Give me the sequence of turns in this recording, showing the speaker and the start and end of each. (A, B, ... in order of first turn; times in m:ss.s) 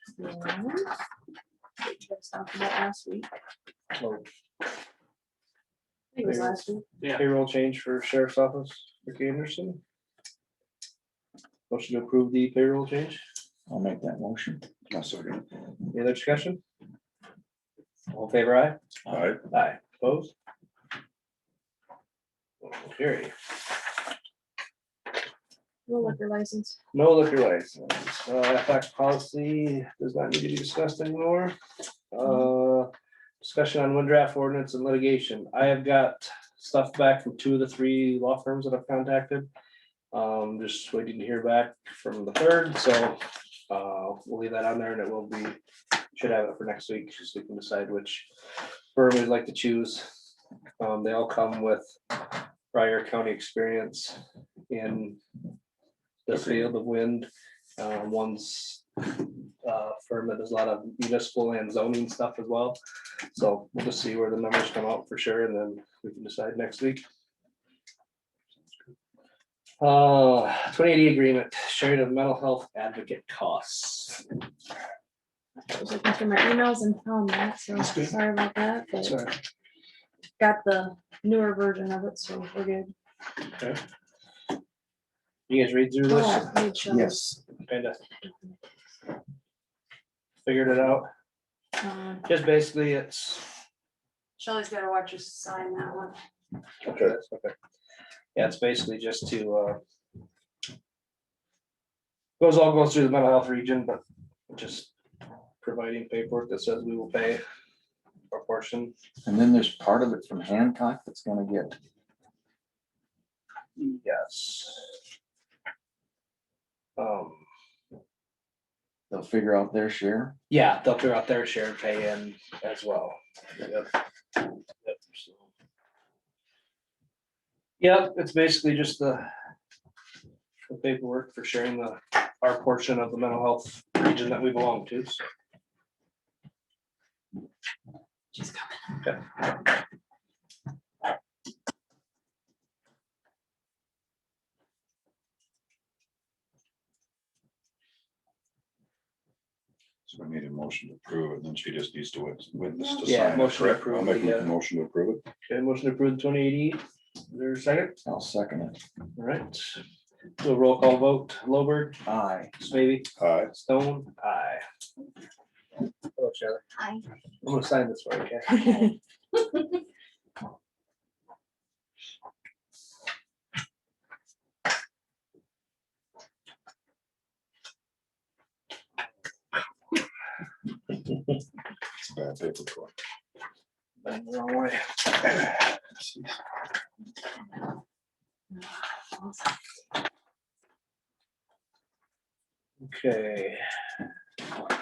0:00.2-0:00.9 A
0:01.8-0:03.3 A
0:04.0-0:04.2 B
0:06.2-0:06.8 A
0:06.2-0:09.8 B
0:11.7-0:13.2 B
0:13.7-0:14.7 C
0:14.9-0:15.4 D
0:15.9-0:16.6 B
0:18.1-0:18.8 B
0:19.1-0:19.4 D
0:19.5-0:20.3 B
0:22.6-0:23.3 B
0:25.9-0:26.8 A
0:26.9-0:31.5 B
0:32.1-0:32.9 B
0:33.4-0:39.5 B
0:40.1-0:45.6 B
0:46.2-0:48.3 B
0:48.9-0:50.1 B
0:50.8-0:52.0 B
0:52.7-0:55.2 B
0:56.3-0:58.8 B
0:59.6-1:02.8 B
1:03.3-1:07.0 B
1:09.8-1:14.2 B
1:15.6-1:19.2 A
1:19.0-1:19.3 B
1:20.4-1:22.9 A
1:25.5-1:26.6 B
1:26.0-1:27.4 A
1:26.9-1:27.3 C
1:27.6-1:28.0 B
1:28.2-1:28.6 A
1:30.4-1:31.1 B
1:31.8-1:32.3 A
1:32.2-1:33.4 B
1:34.4-1:36.2 A
1:36.9-1:37.6 B
1:38.4-1:39.8 B
1:42.4-1:44.9 B
1:45.6-1:47.4 B
1:48.3-1:48.9 B
1:49.2-1:51.8 C
1:53.8-1:54.9 B
1:57.0-1:57.4 B
1:59.1-2:00.4 C
2:00.5-2:03.9 B
2:04.8-2:05.5 B
2:07.8-2:09.3 B
2:10.7-2:15.2 B
2:30.1-2:35.2 D
2:33.1-2:34.5 B
2:35.5-2:38.0 B
2:38.0-2:38.8 C
2:39.2-2:39.8 B
2:40.4-2:42.0 B
2:42.0-2:42.5 C
2:42.6-2:44.6 B
2:43.2-2:43.5 D
2:46.2-2:46.6 B
2:47.4-2:48.9 B
3:02.0-3:02.9 D
3:04.0-3:05.0 B
3:06.0-3:06.3 D
3:08.5-3:09.4 A
3:12.8-3:13.6 B